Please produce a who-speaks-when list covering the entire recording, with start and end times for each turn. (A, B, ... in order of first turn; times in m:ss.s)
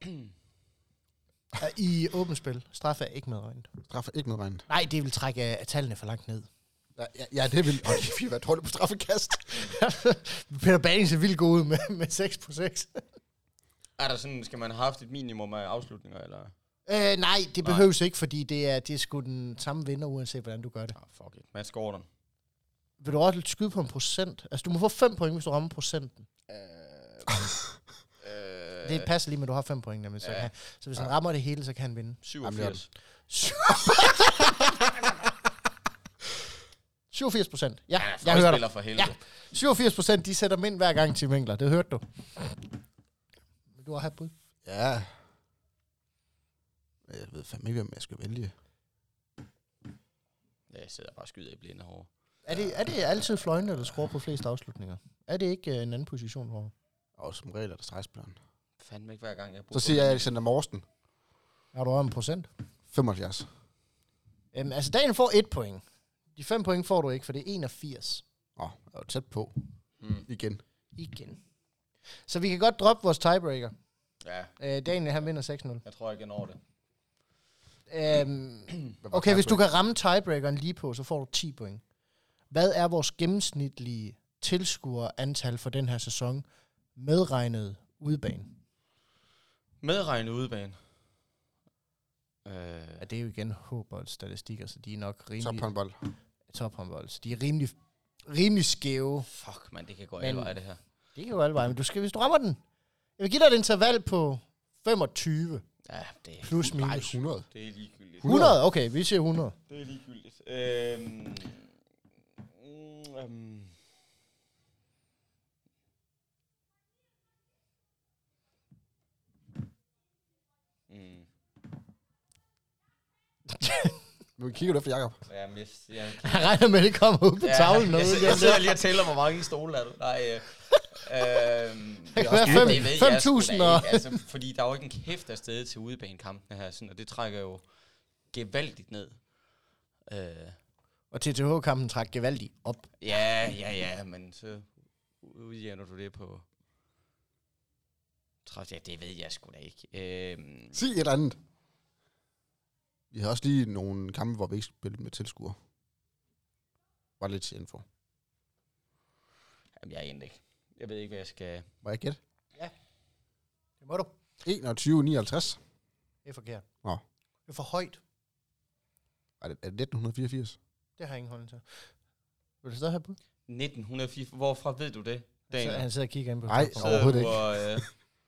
0:01.6-0:03.7 A
0:03.9-0:04.6 B
0:04.7-0:06.5 A
0:07.0-0:09.7 B
0:09.5-0:13.0 A
0:14.0-0:16.5 C
0:16.9-0:21.0 A
0:17.6-0:17.9 C
0:21.0-0:22.1 C
0:23.0-0:26.3 A
0:26.5-0:27.4 C
0:28.2-0:29.1 C
0:28.8-0:32.2 A
0:30.2-0:30.5 C
0:32.2-0:32.9 C
0:32.4-0:32.8 B
0:33.3-0:34.7 A
0:37.1-0:42.6 A
0:38.0-0:39.2 C
0:43.8-0:44.3 A
0:44.6-0:45.1 B
0:47.1-0:48.5 B
0:50.7-0:52.1 C
0:52.4-0:56.7 A
0:57.2-0:58.4 B
0:58.8-1:00.3 C
0:59.7-1:00.8 B
1:01.7-1:02.5 A
1:02.9-1:03.5 B
1:04.5-1:05.8 A
1:06.3-1:08.2 A
1:08.6-1:09.5 B
1:10.0-1:10.2 C
1:10.3-1:10.6 B
1:11.0-1:11.4 A
1:12.3-1:13.7 A
1:14.2-1:14.5 C
1:14.6-1:15.8 A
1:15.8-1:16.6 C
1:17.9-1:21.8 A
1:19.0-1:19.6 B
1:22.5-1:26.4 A
1:27.0-1:28.5 A
1:29.8-1:30.8 C
1:32.4-1:33.0 C
1:33.0-1:35.7 A
1:35.4-1:36.0 B
1:36.5-1:37.7 A
1:38.3-1:39.3 A
1:39.3-1:40.8 C
1:40.2-1:40.6 A
1:41.1-1:42.6 A
1:43.2-1:45.6 A
1:45.8-1:46.7 C
1:46.4-1:47.2 A
1:46.6-1:47.5 B
1:47.5-1:48.3 C
1:48.2-1:48.6 B
1:48.2-1:49.6 A
1:49.7-1:51.7 C
1:52.5-1:53.7 C
2:00.9-2:01.3 C
2:03.5-2:04.0 A
2:04.4-2:05.2 B
2:05.3-2:06.5 C
2:06.2-2:08.8 A
2:07.4-2:17.6 C
2:12.1-2:14.2 A
2:12.2-2:12.9 B
2:18.3-2:19.2 C
2:20.1-2:20.6 C
2:21.1-2:22.9 A
2:23.0-2:24.7 C
2:25.2-2:26.4 C
2:28.4-2:30.8 C
2:30.7-2:31.4 B
2:33.1-2:35.6 B
2:37.2-2:37.8 B
2:39.8-2:41.7 C
2:41.8-2:42.2 B
2:43.8-2:44.1 A
2:44.4-2:45.6 B
2:46.2-2:46.6 A
2:47.5-2:48.0 A
2:49.4-2:50.6 B
2:51.0-2:51.6 A
2:52.6-2:53.2 A
2:53.5-2:55.8 C
2:55.5-2:57.2 A
2:56.5-2:57.9 B
2:56.8-2:57.8 C